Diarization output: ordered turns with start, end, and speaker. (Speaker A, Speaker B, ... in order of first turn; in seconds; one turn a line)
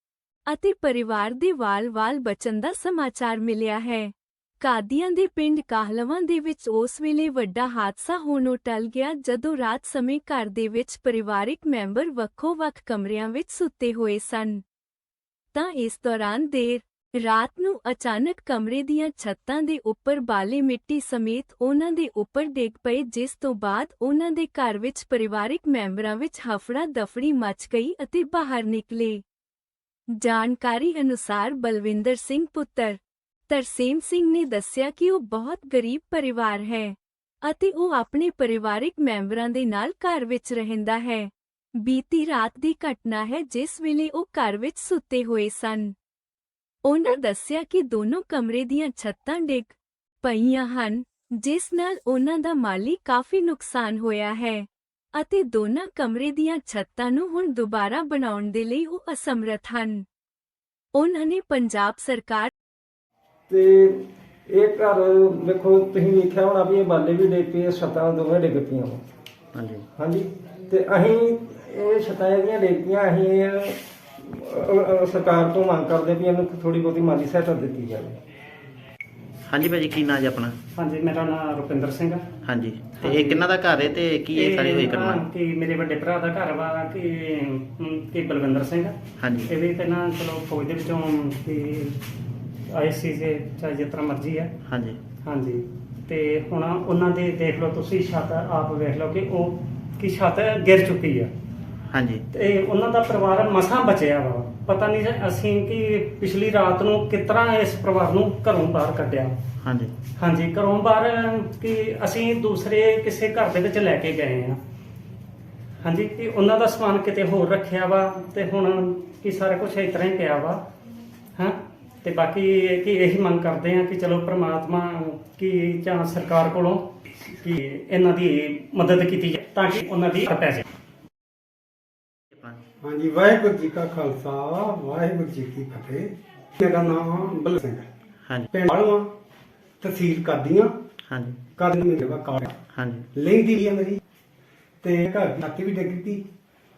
Speaker A: 0.5-14.6
Speaker A: 15.5-29.2
Speaker A: 30.2-33.0
Speaker A: 33.5-45.9
Speaker A: 46.9-60.0
Speaker A: 60.9-62.5
Speaker B: 63.5-63.9
Speaker B: 64.5-69.0
Speaker C: 69.5-69.8
Speaker B: 70.0-78.2
Speaker C: 79.5-80.6
Speaker D: 80.7-82.3
Speaker C: 82.5-85.2
Speaker D: 83.0-83.5
Speaker D: 84.3-92.0
Speaker C: 89.2-89.5
Speaker D: 92.7-94.5
Speaker C: 94.7-95.0
Speaker D: 95.2-101.3
Speaker C: 101.9-102.2
Speaker D: 102.3-109.4
Speaker C: 109.6-109.9
Speaker D: 110.2-114.6
Speaker D: 115.8-120.6
Speaker D: 121.4-130.7
Speaker C: 132.3-132.6
Speaker E: 132.8-137.9
Speaker E: 138.5-139.1
Speaker E: 139.8-140.7
Speaker C: 141.1-141.4
Speaker E: 141.6-142.6
Speaker C: 142.7-143.1
Speaker E: 143.2-144.0
Speaker E: 144.8-146.2